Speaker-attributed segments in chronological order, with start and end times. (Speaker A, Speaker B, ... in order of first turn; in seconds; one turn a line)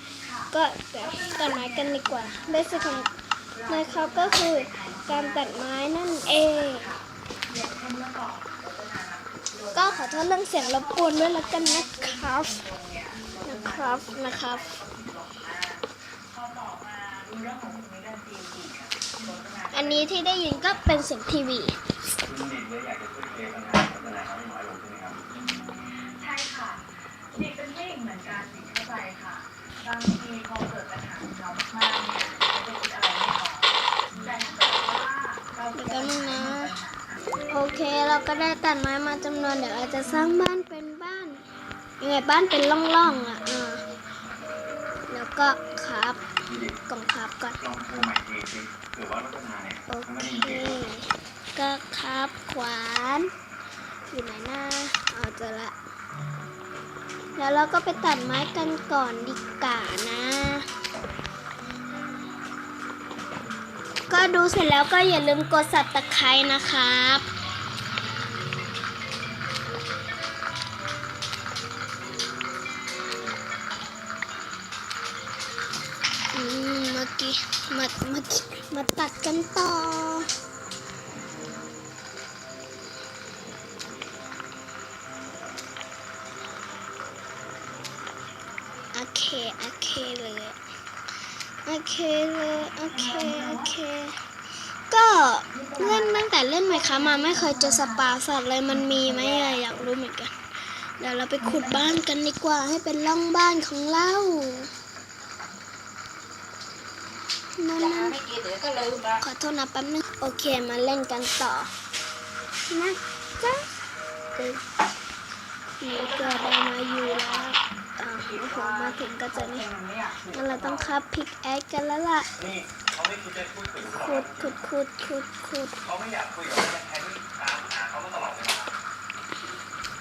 Speaker A: 0.2-21.0
Speaker B: 0.5-3.1
Speaker B: 3.7-6.9
Speaker B: 9.7-12.6
Speaker B: 13.4-14.7
Speaker B: 19.7-21.8
Speaker C: 22.2-25.2
Speaker A: 25.4-37.2
Speaker B: 35.8-36.7
Speaker B: 37.5-41.4
Speaker B: 42.0-43.9
Speaker B: 45.1-46.2
Speaker C: 46.5-46.8
Speaker B: 46.9-47.6
Speaker C: 47.6-50.8
Speaker B: 49.9-53.3
Speaker B: 54.1-55.8
Speaker B: 57.4-60.7
Speaker B: 64.1-67.2
Speaker B: 76.3-80.3
Speaker B: 88.9-90.6
Speaker B: 91.7-94.2
Speaker A: 92.9-93.8
Speaker B: 94.9-100.3
Speaker A: 95.5-99.6
Speaker B: 101.0-104.7
Speaker A: 101.4-102.1
Speaker A: 105.3-105.6
Speaker B: 107.6-108.2
Speaker B: 109.2-111.7
Speaker B: 112.7-113.7
Speaker B: 114.3-114.6
Speaker B: 115.8-119.7
Speaker A: 115.9-121.0
Speaker B: 120.3-122.3
Speaker C: 122.4-124.5
Speaker B: 123.8-125.8
Speaker C: 125.8-128.7